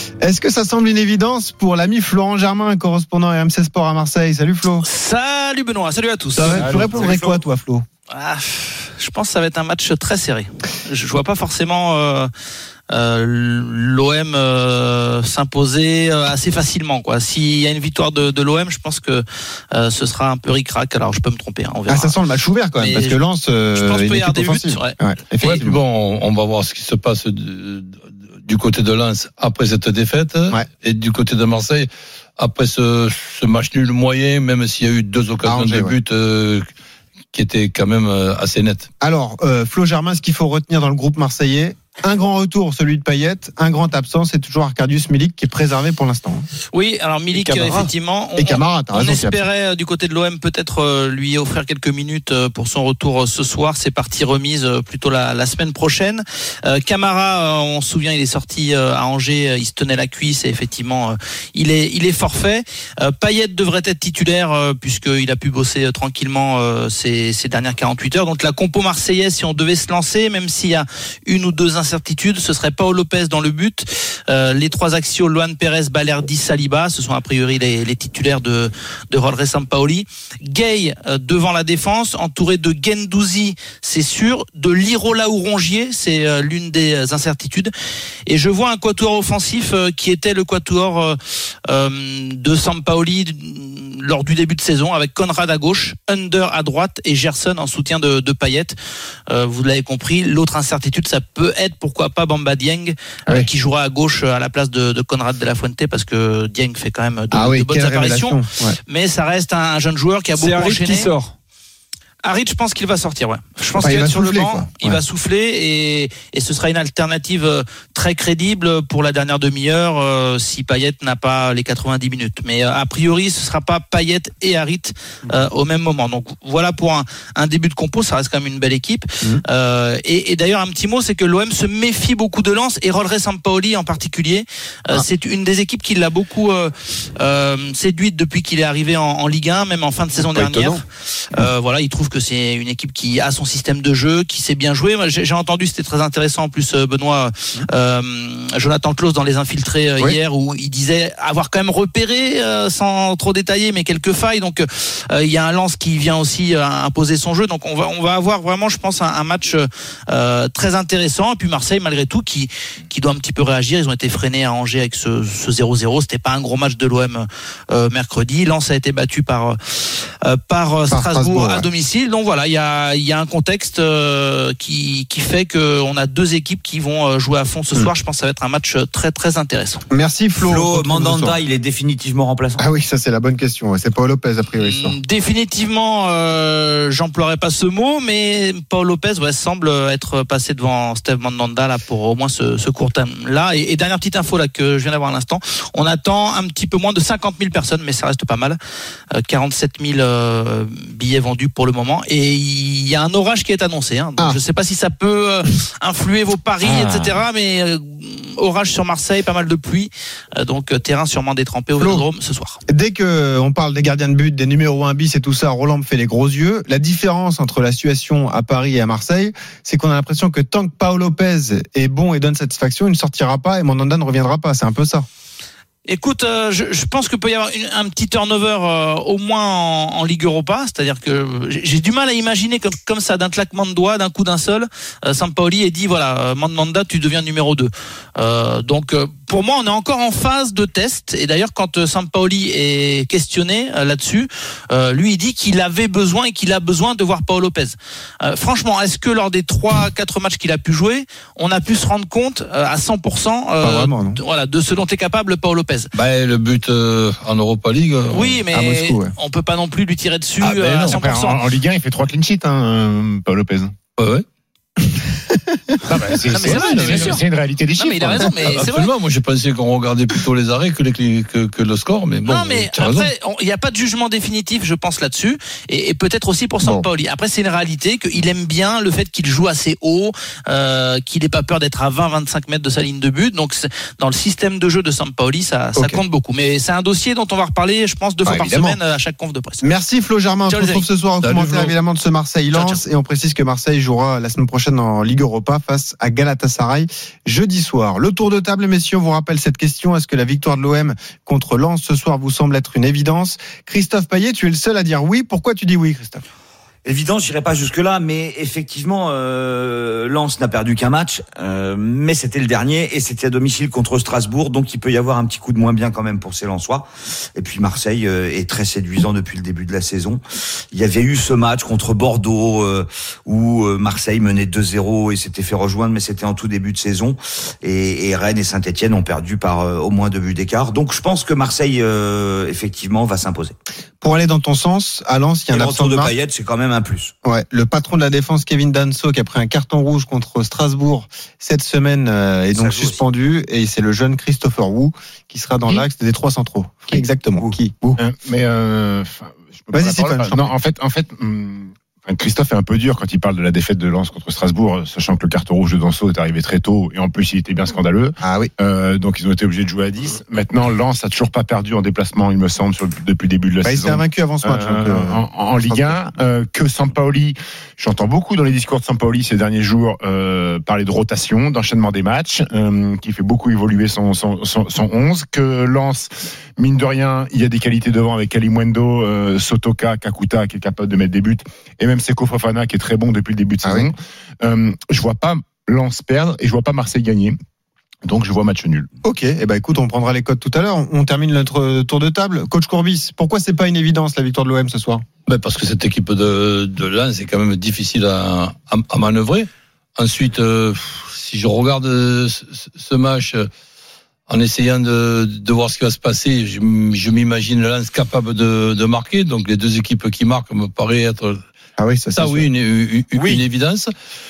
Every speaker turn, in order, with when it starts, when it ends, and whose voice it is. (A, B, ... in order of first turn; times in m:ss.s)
0:00.2-0:04.8 A
0:04.8-0:06.7 B
0:06.4-0:07.8 A
0:06.6-0:06.9 C
0:06.8-0:07.4 D
0:08.1-0:12.3 B
0:12.9-0:22.1 B
0:21.9-0:25.8 A
0:22.8-0:23.2 B
0:23.7-0:24.9 B
0:25.4-0:36.6 E
0:35.4-0:35.9 A
0:37.3-0:38.9 E
0:39.0-0:46.4 A
0:46.7-1:27.7 B
0:47.4-0:47.9 F
0:48.4-0:49.4 A
1:28.3-1:38.8 B
1:39.3-1:51.1 B
1:47.3-1:48.8 A
1:50.3-1:51.3 F
1:52.2-2:20.8 B
1:53.8-1:55.0 A
2:20.2-2:20.8 F
2:21.3-2:59.8 B
2:50.9-2:51.7 A
2:59.9-3:01.4 A
3:00.4-3:02.6 D
3:02.6-3:05.0 A
3:04.6-3:18.6 B
3:19.1-3:32.6 B
3:26.6-3:27.2 A
3:31.8-3:32.0 A
3:32.7-3:45.1 A
3:45.8-4:15.9 B
4:13.6-4:14.2 A
4:15.9-4:18.4 E
4:18.1-4:21.4 B
4:18.5-4:19.1 A
4:20.4-4:23.7 C
4:24.0-4:24.2 E
4:25.8-4:28.4 C
4:26.3-4:28.9 B
4:26.5-4:27.0 A
4:28.4-4:33.1 E
4:32.3-4:49.7 B
4:45.8-4:46.0 A
4:48.2-4:48.8 A
4:49.6-5:06.2 A
4:50.5-4:50.8 B
4:51.2-4:51.7 E
4:52.5-4:52.8 B
5:06.8-5:20.2 D
5:20.7-5:33.5 D
5:34.0-5:36.1 A
5:35.5-5:37.1 D
5:37.2-5:48.0 A
5:42.5-5:43.0 D
5:48.0-6:27.4 C
5:49.7-5:50.4 A
5:58.2-5:58.5 A
6:03.6-6:06.0 A
6:23.6-6:23.9 A
6:28.0-6:28.9 C
6:29.0-6:35.0 A
6:35.2-6:43.5 E
6:44.3-6:51.4 E
6:51.8-6:52.5 A
6:52.1-6:53.9 E
6:53.1-6:53.4 F